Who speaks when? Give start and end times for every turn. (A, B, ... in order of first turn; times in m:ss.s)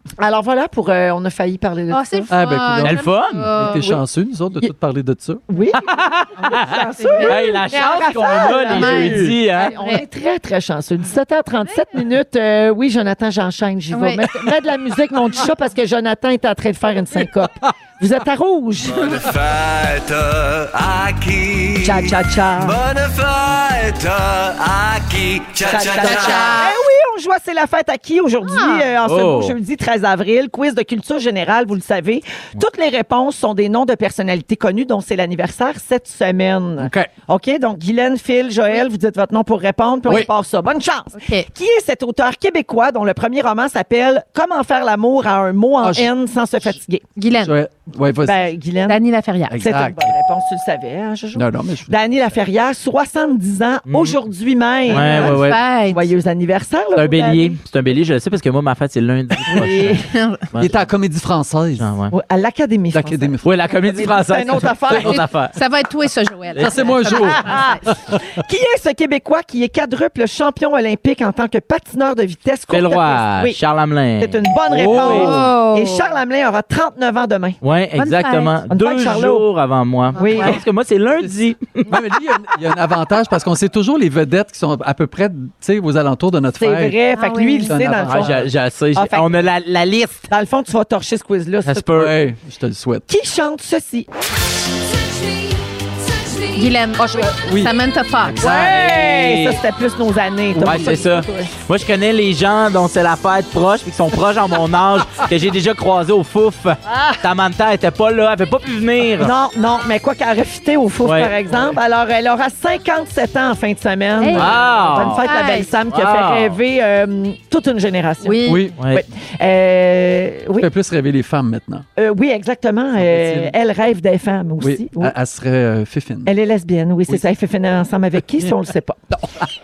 0:00.2-0:02.4 A
0:01.9-0:04.0 B
0:02.3-0:05.4 C
0:02.8-0:03.5 D
0:05.5-0:19.1 A
0:05.8-0:09.8 D
0:07.0-0:07.6 B
0:08.7-0:10.0 B
0:08.9-0:09.3 C
0:13.9-0:14.3 B
0:18.8-0:26.7 E
0:21.8-0:22.8 A
0:25.7-0:47.0 A
0:28.4-0:28.9 B
0:29.0-0:29.6 D
0:36.8-0:37.1 C
0:41.1-0:41.5 B
0:45.8-0:46.8 C
0:47.2-0:47.6 B
0:47.4-0:48.5 C
0:48.2-0:49.0 A
0:48.9-0:49.6 B
0:49.5-0:50.1 C
0:49.5-0:57.6 A
0:51.4-0:52.0 C
0:53.9-0:54.2 D
0:54.9-0:55.6 D
0:54.9-0:55.4 C
0:55.3-0:56.1 B
0:57.0-1:00.0 D
0:59.5-1:00.1 A
0:59.5-0:59.8 C
1:00.1-1:00.4 B
1:00.5-1:00.8 D
1:00.6-1:01.9 C
1:01.8-1:02.1 D
1:02.1-1:03.4 A
1:02.9-1:03.5 C
1:03.4-1:05.5 D
1:03.9-1:05.2 A
1:04.9-1:05.2 C
1:05.1-1:07.8 B
1:06.6-1:08.2 C
1:07.1-1:13.6 A
1:12.7-1:15.3 D
1:14.2-1:17.6 A
1:14.7-1:15.5 C
1:15.0-1:16.1 B
1:17.6-1:22.0 D
1:18.0-1:18.6 B
1:18.7-1:19.5 A
1:20.2-1:20.6 A
1:20.2-1:20.6 B
1:21.9-1:27.0 C
1:26.6-1:29.5 A
1:27.1-1:27.8 B
1:27.6-1:28.5 C
1:28.0-1:30.3 D
1:30.3-1:31.9 A
1:31.6-1:32.2 D
1:31.9-1:33.1 C
1:33.1-1:34.1 A
1:36.5-1:38.4 B
1:37.0-1:37.8 C
1:38.3-1:38.8 C
1:38.4-1:39.6 D
1:38.4-1:41.5 A
1:40.5-1:41.0 C
1:40.6-1:49.3 D
1:49.2-2:00.7 A
1:51.0-1:51.3 D
1:54.2-1:55.7 B
1:54.3-1:55.2 D
1:55.9-1:56.6 D
1:58.2-1:58.7 B
1:58.4-1:58.8 C
1:58.8-1:59.0 D
2:00.6-2:01.9 C
2:02.0-2:05.1 A
2:03.0-2:03.5 C
2:04.6-2:06.3 C
2:06.3-2:09.0 A
2:08.2-2:09.5 C